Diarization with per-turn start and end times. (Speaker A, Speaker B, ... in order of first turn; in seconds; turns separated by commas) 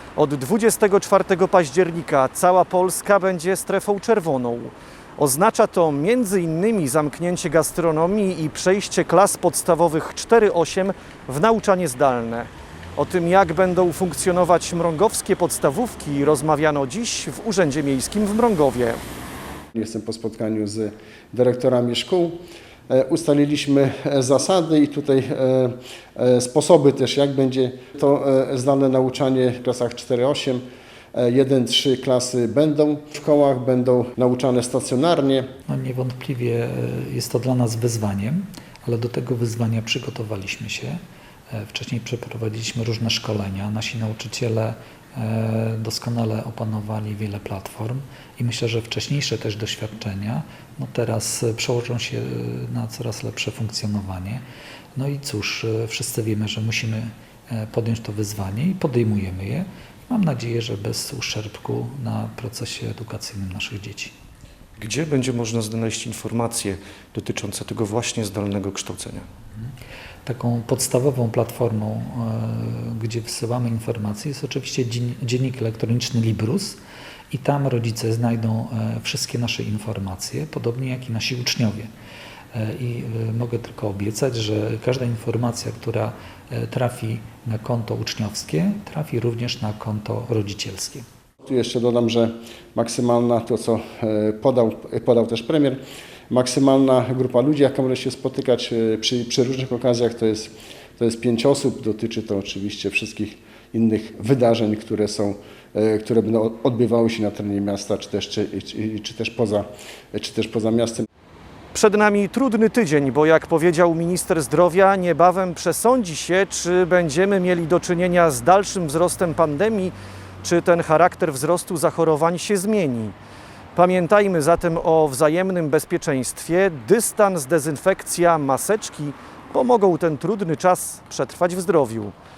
Speaker A: 0.1-19.0, Speaker B: 19.7-22.4, Speaker B: 22.9-30.6, Speaker B: 31.1-35.5, Speaker C: 35.7-41.0, Speaker C: 41.5-54.4, Speaker C: 54.9-64.1, Speaker A: 64.8-69.2, Speaker C: 70.2-76.8, Speaker C: 77.3-81.9, Speaker C: 82.5-91.0, Speaker B: 91.4-95.8, Speaker B: 96.3-111.0, Speaker A: 111.7-123.1, Speaker A: 123.7-132.1